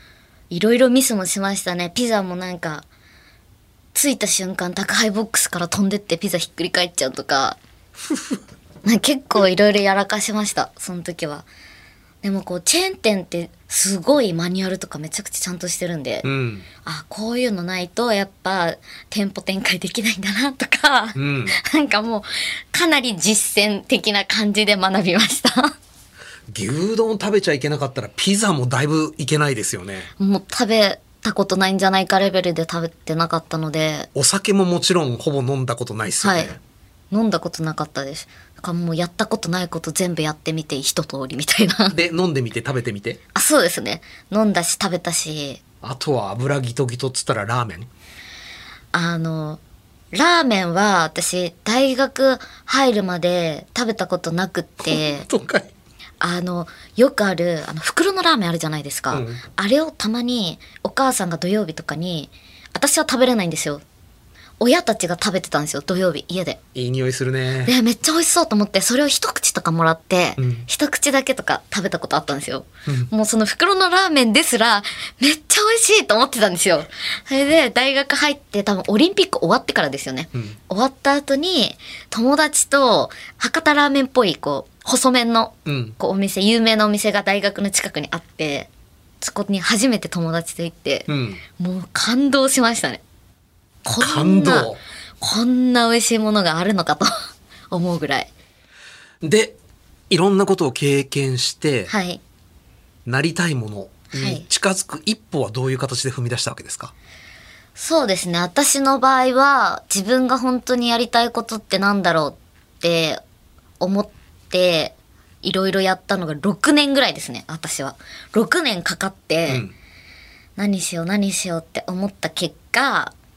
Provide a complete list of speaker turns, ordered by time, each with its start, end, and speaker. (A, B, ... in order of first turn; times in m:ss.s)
0:00.5-0:02.8 A
0:03.9-0:07.6 A
0:08.8-0:11.4 A
0:12.2-0:16.3 A
0:16.2-0:16.6 B
0:16.8-0:25.7 A
0:21.2-0:21.5 B
0:26.5-0:30.1 B
0:30.2-0:34.1 A
0:34.1-0:36.6 B
0:36.2-0:36.6 A
0:37.1-0:42.0 A
0:41.9-0:43.2 B
0:43.3-0:45.6 A
0:45.8-0:47.9 B
0:48.9-0:49.6 A
0:50.1-0:55.2 A
0:54.8-0:55.7 B
0:56.2-1:03.8 A
0:59.1-0:59.4 B
1:04.6-1:06.6 A
1:06.7-1:07.7 B
1:07.6-1:28.7 A
1:10.4-1:10.6 B
1:25.6-1:26.0 B
1:29.2-1:33.0 A
1:31.1-1:31.4 B
1:33.8-1:38.3 A
1:34.0-1:34.8 B
1:39.2-1:39.6 B
1:40.1-1:41.9 B
1:41.9-1:42.2 A
1:43.0-1:46.9 B
1:44.1-1:44.4 A
1:47.8-1:53.2 A
1:53.8-1:59.6 A
1:59.5-1:59.7 B
2:00.6-2:03.1 A